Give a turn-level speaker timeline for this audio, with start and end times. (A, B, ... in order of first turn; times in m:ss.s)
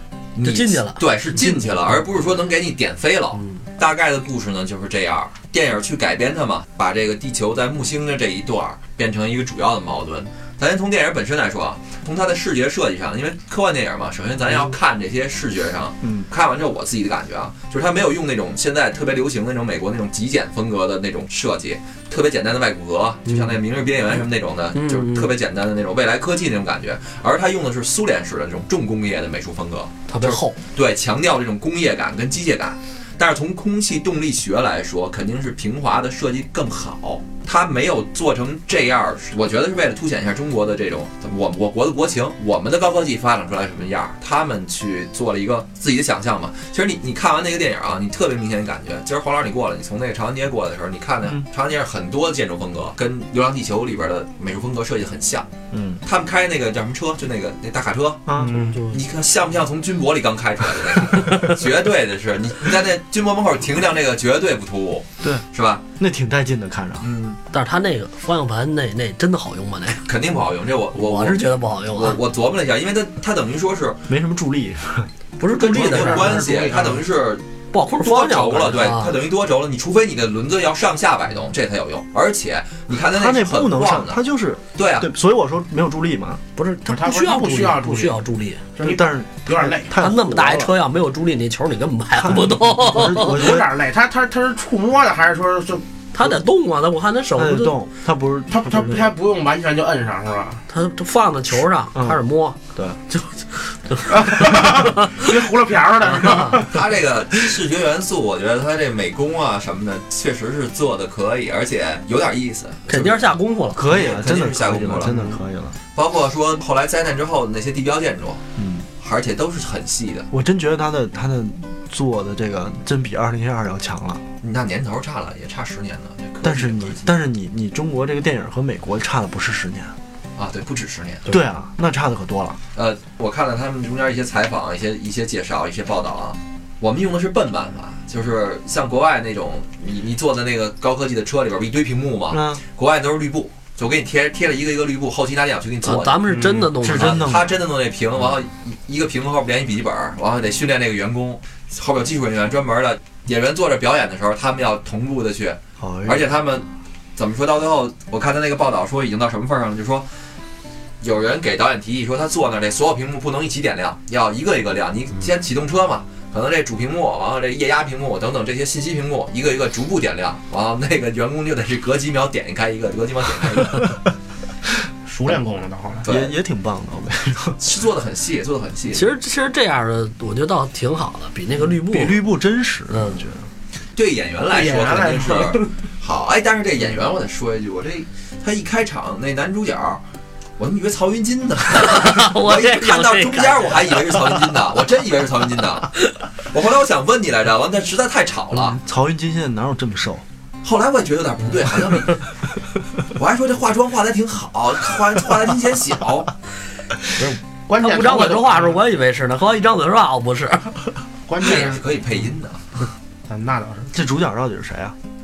0:00.3-0:55.5 A
0:00.4-0:01.6 B
0:16.0-0:16.3 C
0:23.2-0:23.5 B
0:24.7-0:25.3 B
0:30.1-0:30.5 B
0:55.7-0:56.0 C
0:56.0-0:58.2 A
0:58.2-0:58.6 C
0:58.4-0:59.0 B
0:58.9-1:05.8 A
1:06.0-1:07.0 C
1:07.0-1:07.4 A
1:07.5-1:10.0 B
1:10.0-1:14.1 A
1:10.9-1:12.2 B
1:14.1-1:15.1 C
1:15.4-1:16.5 B
1:15.5-1:17.4 A
1:15.6-1:17.0 D
1:16.1-1:16.8 C
1:17.7-1:19.2 B
1:18.0-1:24.2 A
1:23.0-1:26.4 C
1:24.8-1:25.1 A
1:26.6-1:28.6 B
1:26.9-1:28.2 D
1:28.8-1:29.9 D
1:28.8-1:30.7 C
1:30.0-1:33.4 B
1:32.1-1:33.7 C
1:33.2-1:35.8 D
1:36.1-1:37.8 B
1:37.4-1:39.1 C
1:38.5-1:40.6 D
1:40.7-1:45.3 B
1:44.1-1:46.8 D
1:46.1-1:46.5 B
1:46.6-1:53.2 A
1:52.9-1:53.9 B
1:53.7-1:55.8 C
1:53.8-1:55.2 A
1:55.9-1:58.4 A
1:58.6-1:58.8 C
1:59.0-2:00.3 A
2:00.3-2:04.2 C
2:04.4-2:07.1 A
2:06.4-2:09.9 C
2:10.4-2:11.4 A
2:11.2-2:12.6 C
2:12.7-2:40.1 A
2:22.3-2:22.6 C
2:25.8-2:27.4 B
2:26.3-2:27.5 C
2:35.8-2:36.3 C
2:41.0-2:54.0 A
2:55.0-2:56.0 D
2:56.0-2:56.3 A
2:56.0-2:57.6 C
2:57.6-2:59.1 A
2:58.9-3:02.2 B
3:01.6-3:03.5 C
3:02.9-3:03.2 B
3:03.9-3:10.0 A
3:04.5-3:05.7 D
3:10.6-3:18.8 A
3:11.7-3:14.4 B
3:18.5-3:20.2 C
3:20.6-3:22.2 A
3:23.0-3:26.3 A
3:27.2-3:30.7 B
3:27.7-3:28.8 D
3:31.3-3:31.8 D
3:31.4-3:32.6 A
3:33.3-3:33.9 D
3:33.9-3:35.0 C